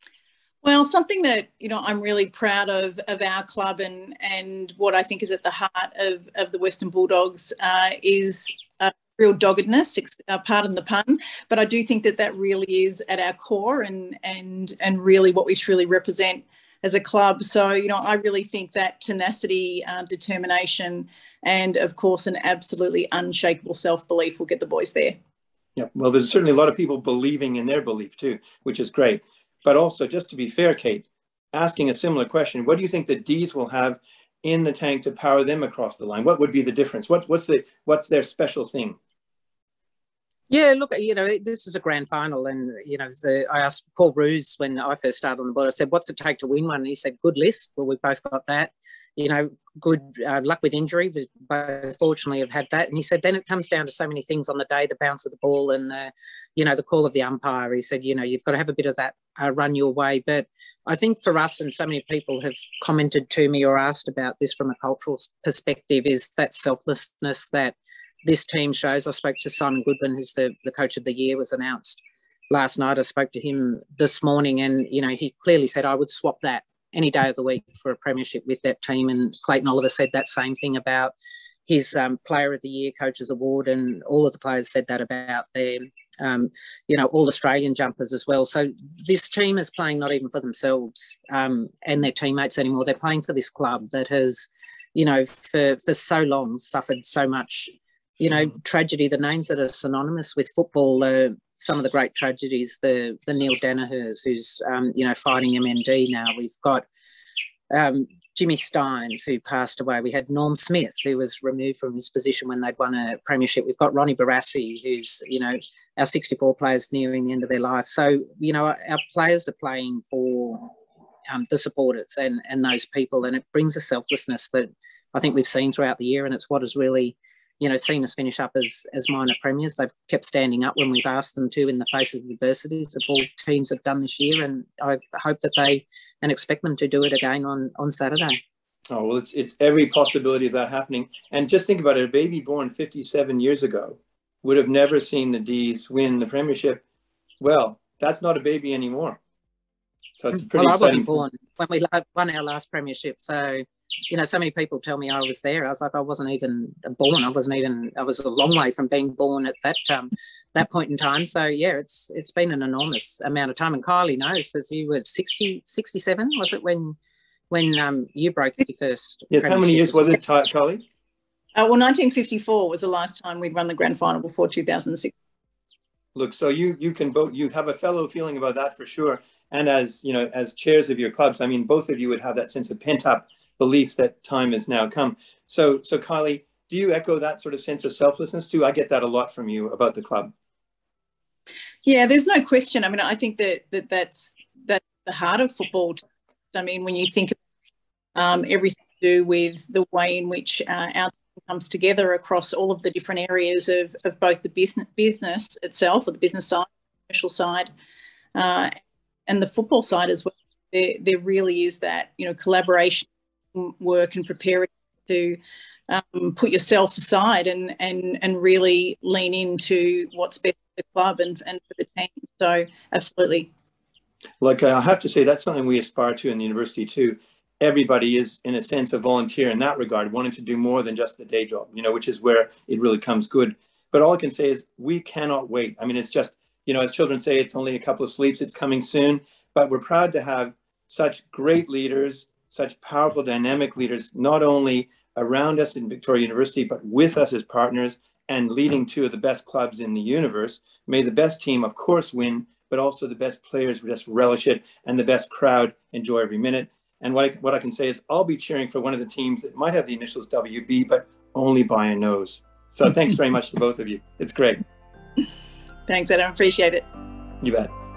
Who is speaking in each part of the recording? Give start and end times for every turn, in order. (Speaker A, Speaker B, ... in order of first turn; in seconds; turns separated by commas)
Speaker A: 0.6-25.2, Speaker B: 25.8-39.0, Speaker C: 40.5-81.1, Speaker C: 81.7-106.8, Speaker C: 107.7-120.7, Speaker C: 121.3-138.4, Speaker B: 138.9-146.8, Speaker B: 147.4-149.2, Speaker B: 150.2-151.2, Speaker C: 150.3-167.0, Speaker C: 167.5-170.2, Speaker B: 169.3-170.8, Speaker A: 171.6-175.1, Speaker B: 176.2-190.3, Speaker A: 191.8-196.0, Speaker A: 196.5-197.4, Speaker A: 198.2-207.7, Speaker A: 208.3-208.7, Speaker A: 209.3-223.5, Speaker B: 224.4-264.6, Speaker A: 265.9-266.9, Speaker B: 267.4-267.7